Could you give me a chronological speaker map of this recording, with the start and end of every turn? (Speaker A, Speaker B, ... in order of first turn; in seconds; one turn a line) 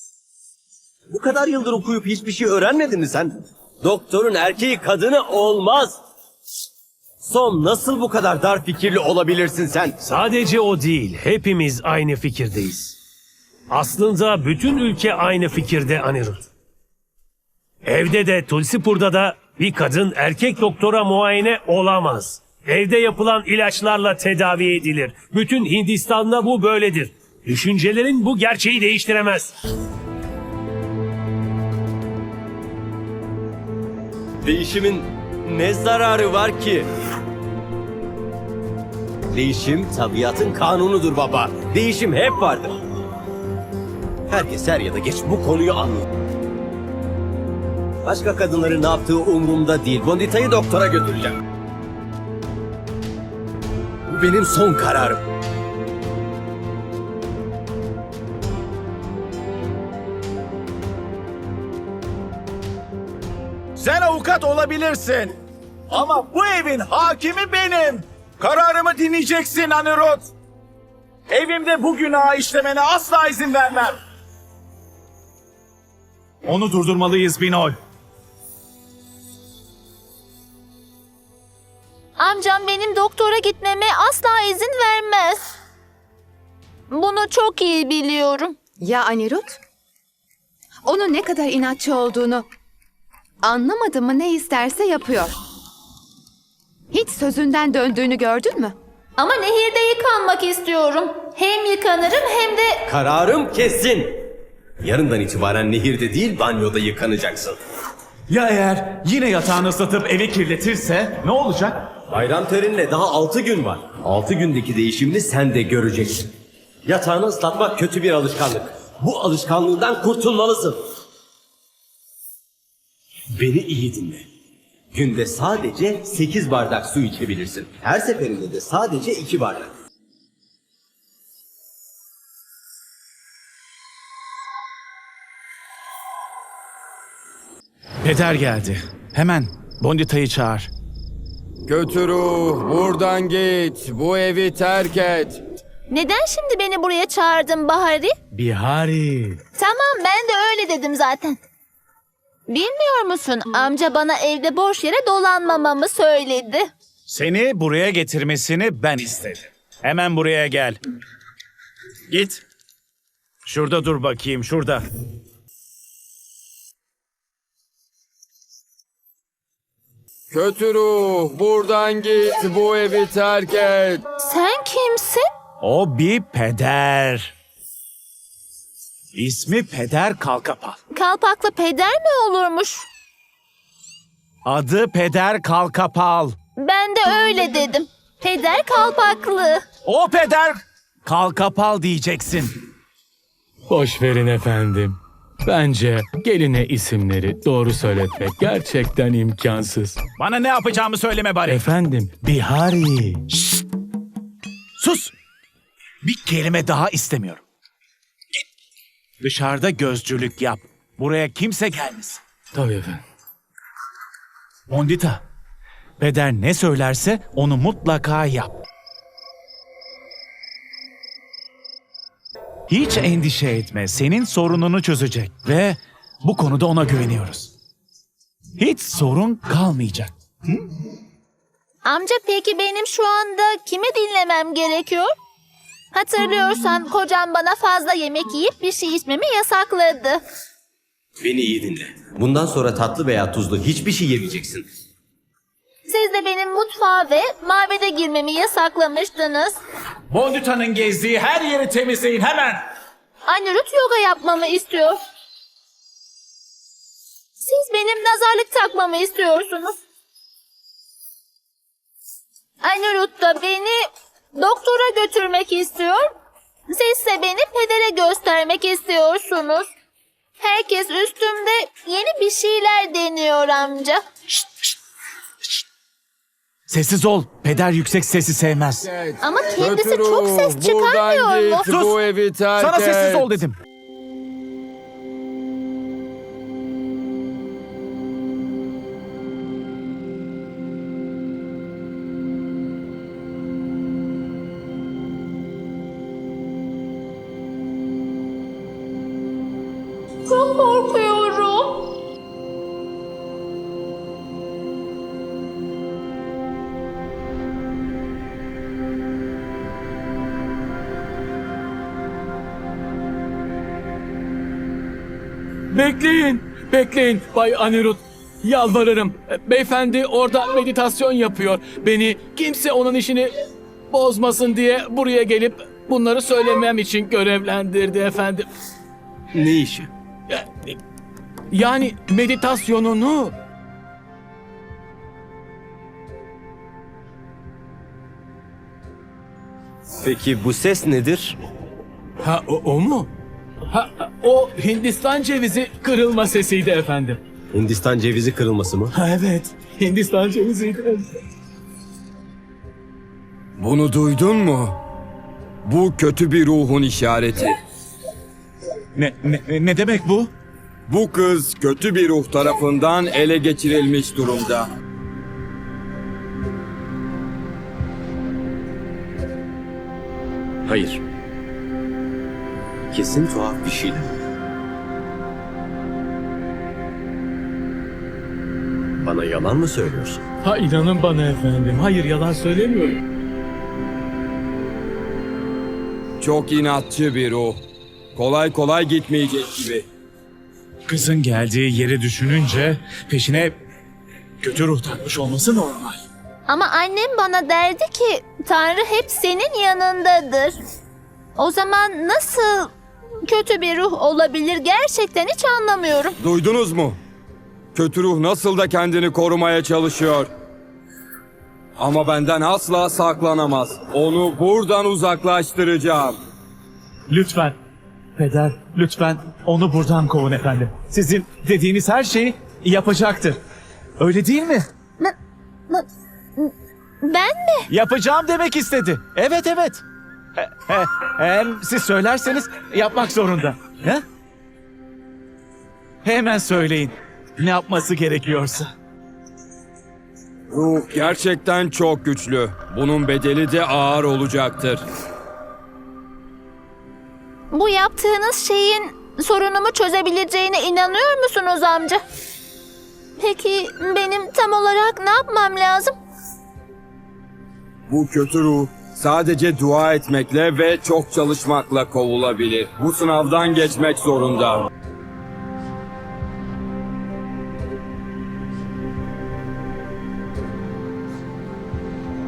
Speaker A: 1.1-6.0
Speaker A: 7.2-10.0
Speaker B: 10.0-12.9
Speaker B: 13.7-16.5
Speaker B: 17.8-29.5
Speaker A: 34.4-36.9
Speaker A: 39.3-42.8
Speaker A: 44.3-46.1
Speaker A: 48.0-51.4
Speaker A: 54.1-55.2
Speaker C: 63.8-65.3
Speaker C: 65.9-70.3
Speaker C: 71.3-74.0
Speaker C: 76.4-77.8
Speaker D: 82.2-85.4
Speaker D: 86.9-88.5
Speaker E: 88.8-89.6
Speaker E: 90.8-92.5
Speaker E: 93.4-95.3
Speaker E: 96.9-98.7
Speaker D: 99.2-102.8
Speaker A: 102.9-104.2
Speaker A: 104.8-107.6
Speaker C: 108.3-111.9
Speaker A: 112.1-116.3
Speaker A: 116.8-120.8
Speaker A: 123.3-124.2
Speaker A: 124.9-129.7
Speaker C: 138.0-140.7
Speaker F: 141.7-145.4
Speaker D: 145.9-148.2
Speaker C: 148.3-149.4
Speaker D: 149.6-151.4
Speaker D: 152.5-156.7
Speaker C: 157.1-160.8
Speaker C: 162.1-162.4
Speaker C: 163.4-164.8
Speaker F: 170.3-174.0
Speaker D: 174.2-175.3
Speaker C: 175.6-177.3
Speaker C: 179.1-180.8
Speaker D: 180.9-182.9
Speaker C: 184.4-186.3
Speaker D: 186.6-189.6
Speaker C: 189.8-192.6
Speaker G: 193.7-200.0
Speaker C: 200.2-201.7
Speaker G: 201.5-202.3
Speaker C: 202.2-203.6
Speaker C: 204.8-205.1
Speaker C: 206.0-207.4
Speaker C: 209.2-212.2
Speaker G: 212.5-213.0
Speaker C: 214.7-215.2
Speaker C: 216.0-218.6
Speaker C: 222.7-227.5
Speaker C: 228.6-230.1
Speaker D: 231.8-235.1
Speaker D: 235.9-240.2
Speaker A: 241.2-244.7
Speaker D: 245.8-249.6
Speaker C: 250.1-252.6
Speaker D: 253.2-255.0
Speaker D: 257.4-259.8
Speaker D: 262.6-266.0
Speaker D: 266.7-269.7
Speaker D: 270.4-274.0
Speaker C: 276.7-278.9
Speaker F: 278.8-283.3
Speaker D: 279.2-281.7
Speaker C: 282.6-283.6
Speaker D: 300.2-302.0
Speaker G: 315.7-323.3
Speaker G: 323.9-328.5
Speaker A: 329.3-329.9
Speaker G: 330.3-330.8
Speaker G: 331.5-333.4
Speaker A: 340.0-341.4
Speaker G: 342.2-343.1
Speaker G: 343.7-347.2
Speaker A: 347.5-348.9
Speaker G: 348.9-351.1
Speaker F: 353.6-354.8
Speaker F: 355.6-357.6
Speaker C: 358.9-360.3
Speaker F: 360.9-364.7
Speaker A: 370.6-371.0
Speaker A: 372.9-374.1
Speaker A: 379.0-380.2
Speaker G: 380.4-383.0
Speaker F: 386.2-387.6
Speaker F: 388.1-389.8
Speaker C: 390.9-393.5
Speaker C: 394.4-396.0
Speaker D: 396.5-400.6
Speaker D: 401.4-402.7
Speaker D: 403.2-406.2
Speaker F: 406.2-407.0
Speaker F: 407.7-410.3
Speaker F: 411.8-416.2
Speaker C: 417.1-417.5
Speaker C: 418.1-423.4
Speaker C: 424.0-424.6
Speaker D: 425.7-427.7
Speaker C: 427.7-429.8
Speaker C: 430.4-434.0
Speaker C: 436.0-438.7
Speaker F: 440.5-444.8
Speaker D: 447.5-452.0
Speaker D: 453.2-455.9
Speaker F: 457.9-464.7